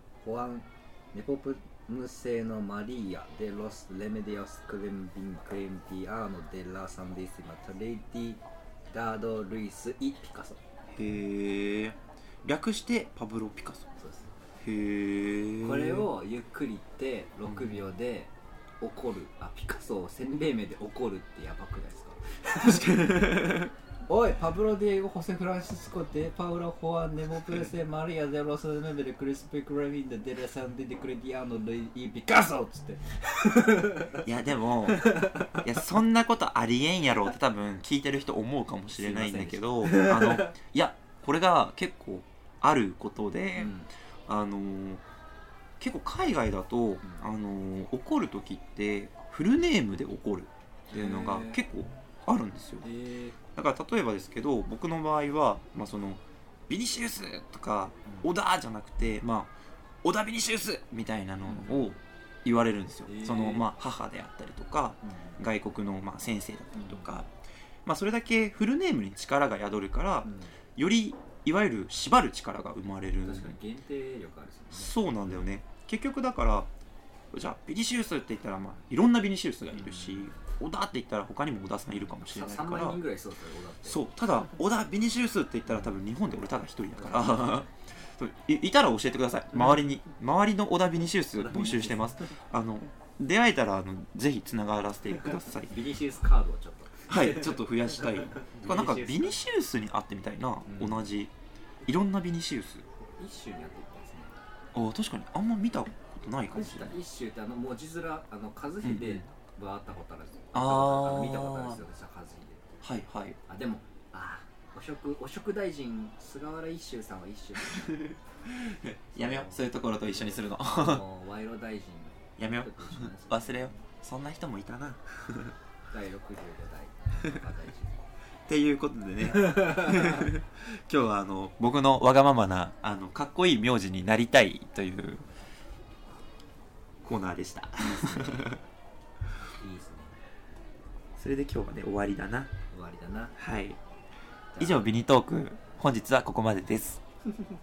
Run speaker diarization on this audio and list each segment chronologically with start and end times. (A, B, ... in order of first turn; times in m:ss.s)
0:00.2-0:10.6 A
0:10.9-0:13.9 B
0:14.0-0:14.3 A
0:14.6-0:16.1 B
0:15.6-0:23.3 A
0:22.6-0:23.7 B
0:24.1-0:34.2 A
0:34.1-0:43.8 B
0:34.8-0:35.6 A
0:38.9-0:40.5 A
0:43.6-0:43.9 A
0:44.3-0:45.0 B
0:45.8-0:52.8 B
0:50.9-0:51.6 A
0:52.8-0:53.4 A
0:53.5-0:59.5 B
1:00.0-1:07.3 B
1:01.4-1:02.0 A
1:03.0-1:03.7 A
1:05.0-1:05.4 A
1:06.7-1:07.2 A
1:07.8-1:13.6 B
1:10.2-1:10.6 A
1:13.2-1:14.9 A
1:14.7-1:16.7 B
1:17.3-1:23.0 B
1:19.7-1:20.5 A
1:22.0-1:24.1 A
1:23.8-1:35.8 B
1:25.7-1:26.0 A
1:26.9-1:27.7 A
1:31.3-1:32.4 A
1:35.6-1:39.5 A
1:37.1-1:41.3 B
1:40.6-1:41.1 A
1:41.8-1:42.8 B
1:43.0-1:44.3 A
1:44.7-1:47.0 B
1:46.5-1:52.8 A
1:48.8-1:49.2 B
1:50.5-1:51.8 B
1:52.8-1:53.4 B
1:53.5-1:58.1 A
1:57.7-2:01.0 B
1:59.1-2:03.9 A
2:02.4-2:05.5 B
2:05.9-2:08.0 A
2:08.5-2:15.3 B
2:09.4-2:10.3 A
2:17.0-2:18.6 B
2:17.8-2:18.6 A
2:19.3-2:20.2 A
2:21.2-2:22.5 B
2:22.7-2:23.4 A
2:23.4-2:23.8 B
2:24.5-2:25.0 A
2:24.6-2:27.0 B